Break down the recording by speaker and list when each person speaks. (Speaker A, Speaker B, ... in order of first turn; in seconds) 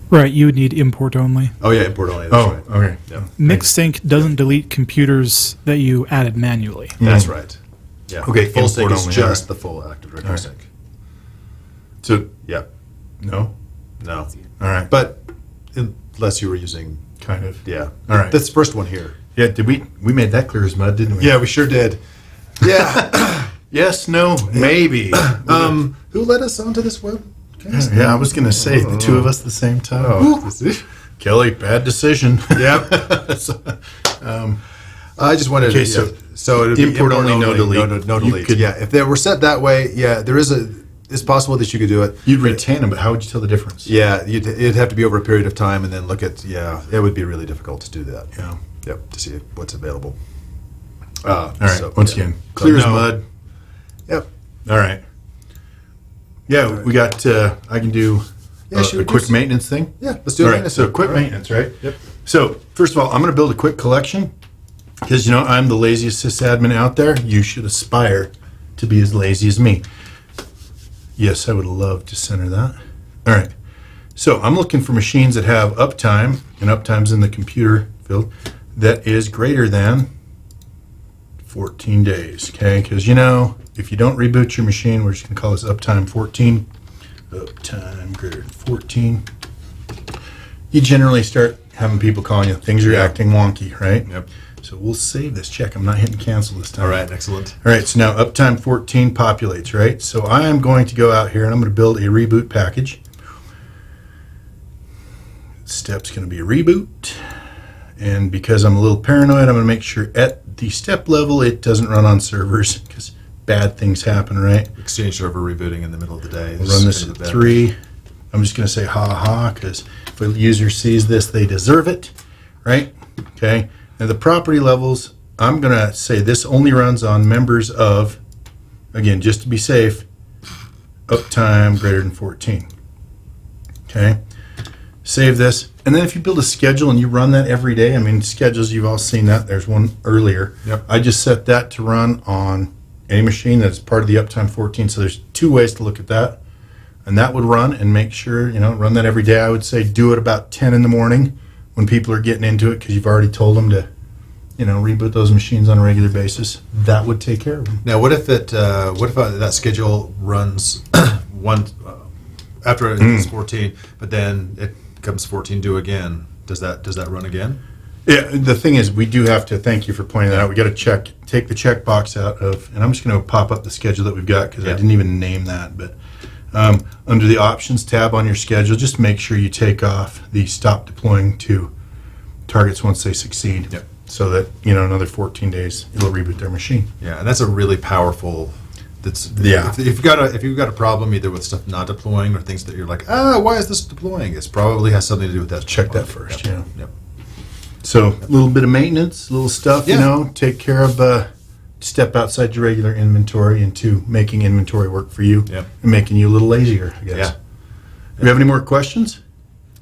Speaker A: 0.1-1.5, 3.4-7.0
Speaker B: 1.6-3.3, 7.0-10.7, 14.0-14.3, 14.9-17.1, 17.6-19.1, 21.2-22.0, 22.6-23.5, 24.5-29.3, 30.0-30.9, 32.5-33.3, 35.2-42.6, 43.8-50.2, 51.2-53.1, 58.7-59.4, 60.0-61.3, 92.8-93.1, 96.8-97.6, 114.8-117.6, 157.8-162.1, 162.6-167.6, 187.0-196.9, 199.8-200.1
Speaker C: 2.3-3.7, 7.0-7.3, 8.2-9.4, 12.0-12.4, 13.2-13.5, 14.6-14.9, 17.2-18.4, 19.3-21.4, 22.7-25.8, 27.7-30.3, 31.2-34.6, 35.6-38.7, 42.2-43.9, 51.6-53.2, 54.6-55.0, 56.5-64.3, 65.0-69.8, 71.2-73.5, 74.2-80.1, 81.4-86.7, 87.3-89.2, 90.7-97.0, 97.6-103.0, 105.7-107.4, 108.0-114.7, 116.6-117.8, 118.3-122.1, 122.6-128.2, 128.9-130.1, 131.1-132.7, 133.9-134.2, 135.0-146.4, 147.0-153.9, 154.6-157.8, 163.0-163.3, 168.1-176.0, 176.5-181.7, 182.5-186.9, 189.4-189.7, 195.7-196.7, 197.8-207.3, 208.2-209.2